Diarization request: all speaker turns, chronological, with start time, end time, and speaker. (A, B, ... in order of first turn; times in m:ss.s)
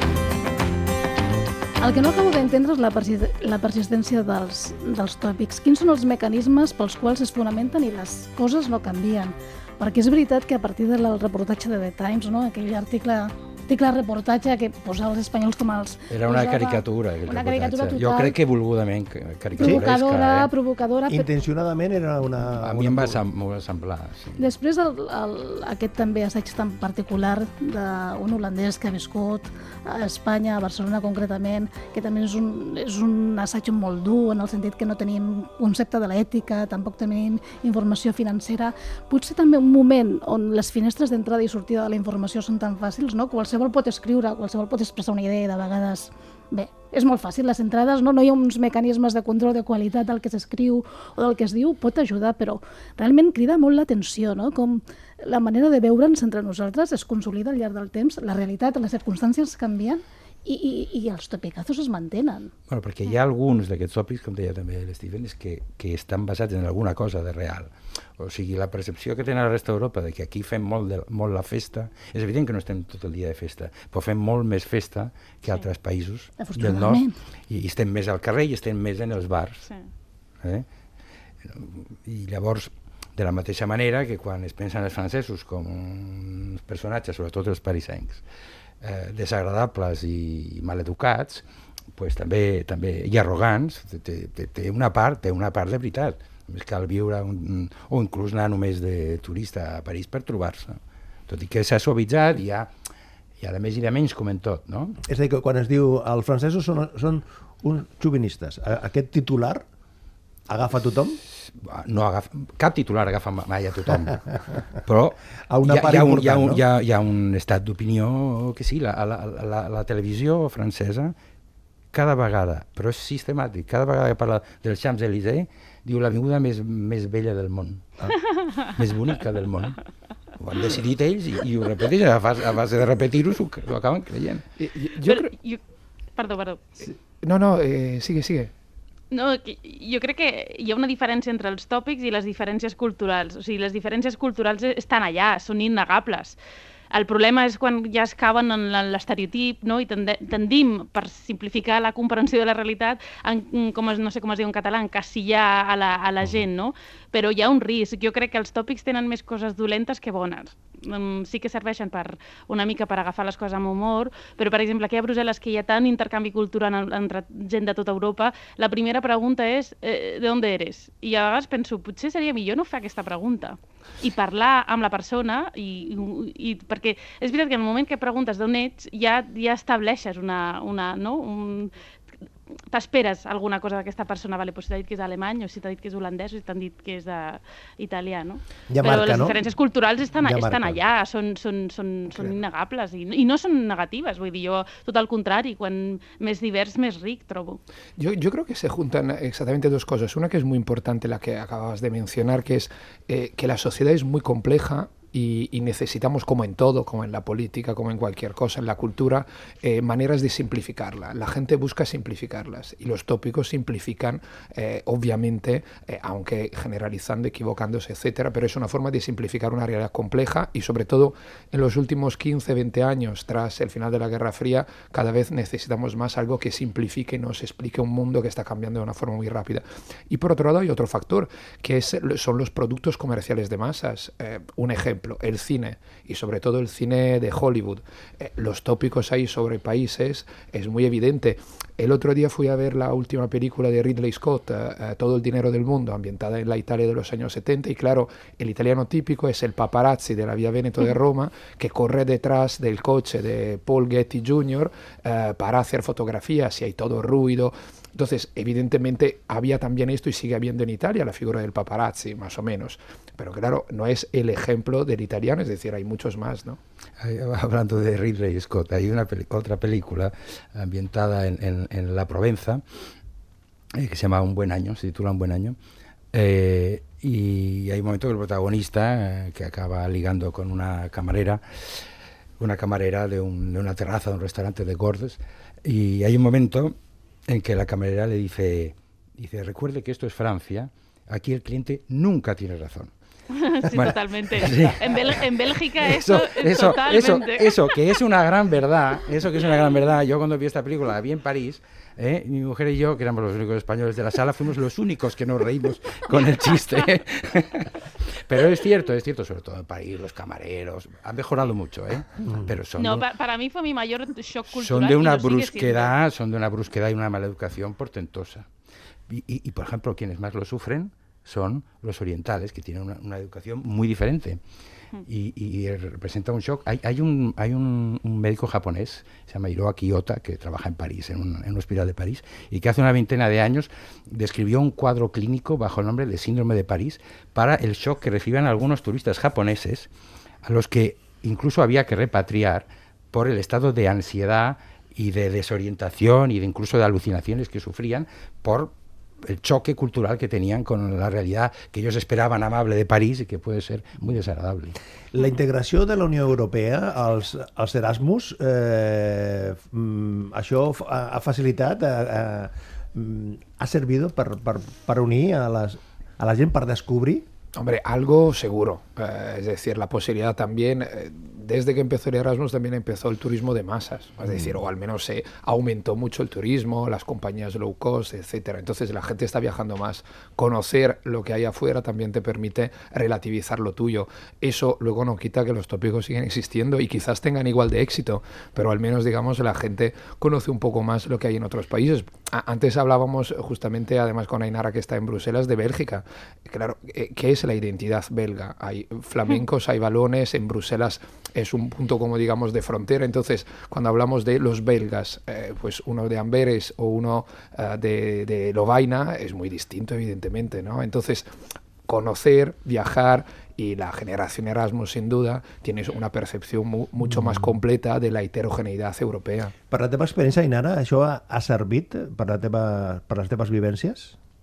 0:01.8-0:18.4 A
0:16.1-0:20.5 B
0:19.6-0:21.3 A
0:19.6-0:19.8 C
0:21.1-0:23.2 C
0:22.6-0:24.5 B
0:24.4-1:02.5 A
1:02.7-1:19.7 B
1:16.4-1:17.2 A
1:21.4-1:28.2 B
1:28.8-1:31.4 B
1:31.9-1:42.7 B
1:43.4-1:45.0 B
1:45.0-1:49.6 C
1:50.5-1:51.2 C
1:51.4-2:01.1 B
1:55.5-1:56.6 C
2:01.9-2:08.1 B
2:08.6-2:09.8 B
2:10.4-2:14.4 B
2:14.6-2:15.3 D
2:15.0-2:15.6 E
2:16.2-2:16.9 E
2:16.8-2:18.5 D
2:19.1-2:26.4 E
2:26.9-3:01.7 E
3:02.7-3:17.6 E
3:08.7-3:09.4 C
3:10.2-3:10.8 C
3:18.0-4:26.6 D
4:27.0-4:32.6 B
4:33.7-4:35.6 B
4:36.1-4:41.8 B
4:42.4-4:46.8 B
4:47.3-4:52.9 B
4:53.3-4:57.8 E
4:53.7-4:55.2 B
4:55.8-5:13.0 B
5:12.2-5:12.5 C
5:12.8-5:15.9 E
5:14.5-5:18.4 B
5:19.1-5:24.4 B
5:25.0-5:39.9 B
5:40.4-5:54.8 B
5:55.1-6:07.3 C
6:07.6-6:51.3 D
6:14.2-6:14.6 C
6:51.8-6:59.5 D
6:59.7-7:04.2 C